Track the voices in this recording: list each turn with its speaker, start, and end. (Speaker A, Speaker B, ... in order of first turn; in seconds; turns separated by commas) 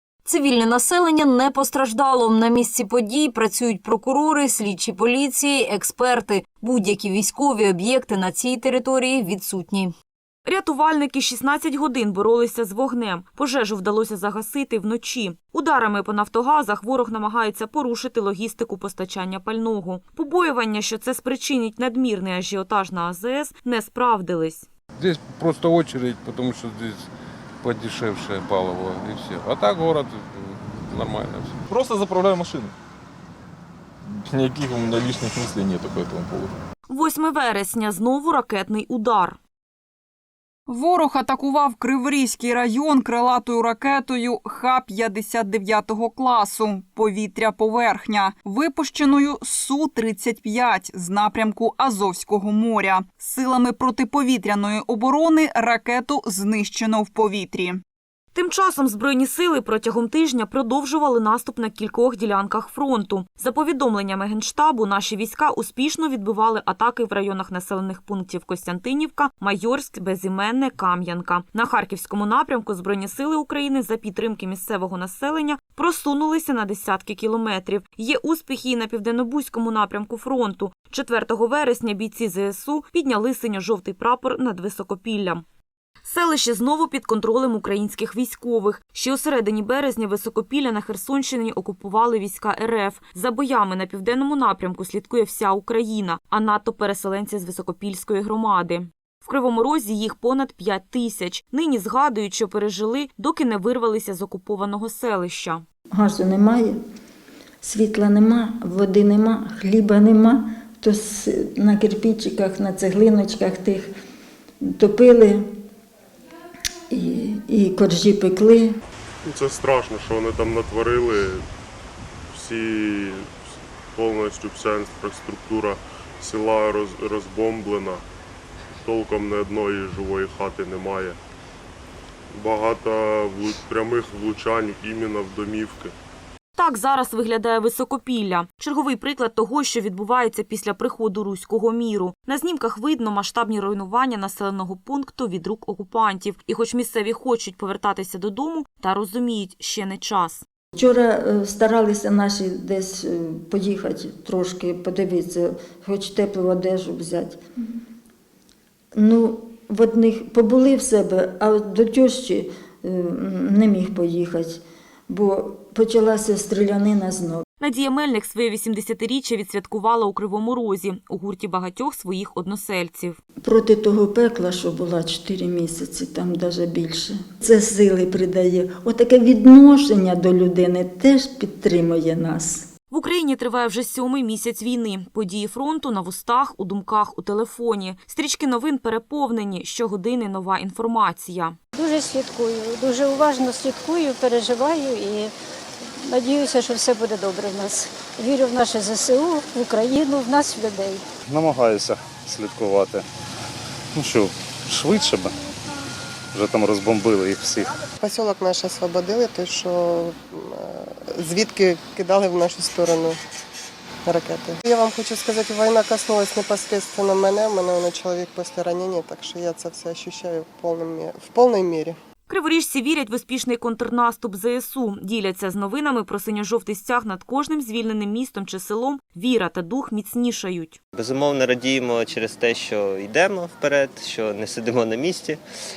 Speaker A: 0.2-9.9, Speaker B: 10.4-24.6, Speaker C: 25.0-27.0, Speaker C: 27.6-31.6, Speaker D: 31.7-32.7, Speaker D: 34.1-36.5, Speaker B: 36.9-39.4, Speaker E: 40.7-57.7, Speaker B: 58.3-85.4, Speaker B: 86.0-105.6, Speaker F: 105.9-106.7, Speaker F: 107.6-113.9, Speaker F: 114.6-115.4, Speaker F: 116.9-118.7, Speaker G: 119.3-121.4, Speaker G: 122.3-123.3, Speaker G: 123.9-128.0, Speaker G: 128.8-131.2, Speaker G: 132.3-135.9, Speaker B: 136.6-150.4, Speaker F: 150.7-157.4, Speaker F: 158.9-167.4, Speaker B: 167.6-173.2, Speaker F: 173.4-182.7, Speaker B: 182.9-191.6, Speaker H: 191.7-195.3, Speaker H: 196.1-201.0, Speaker I: 201.3-203.0, Speaker I: 203.9-205.3, Speaker I: 206.3-207.7, Speaker J: 208.0-213.2, Speaker J: 214.1-221.9, Speaker B: 222.3-230.8, Speaker K: 230.9-235.4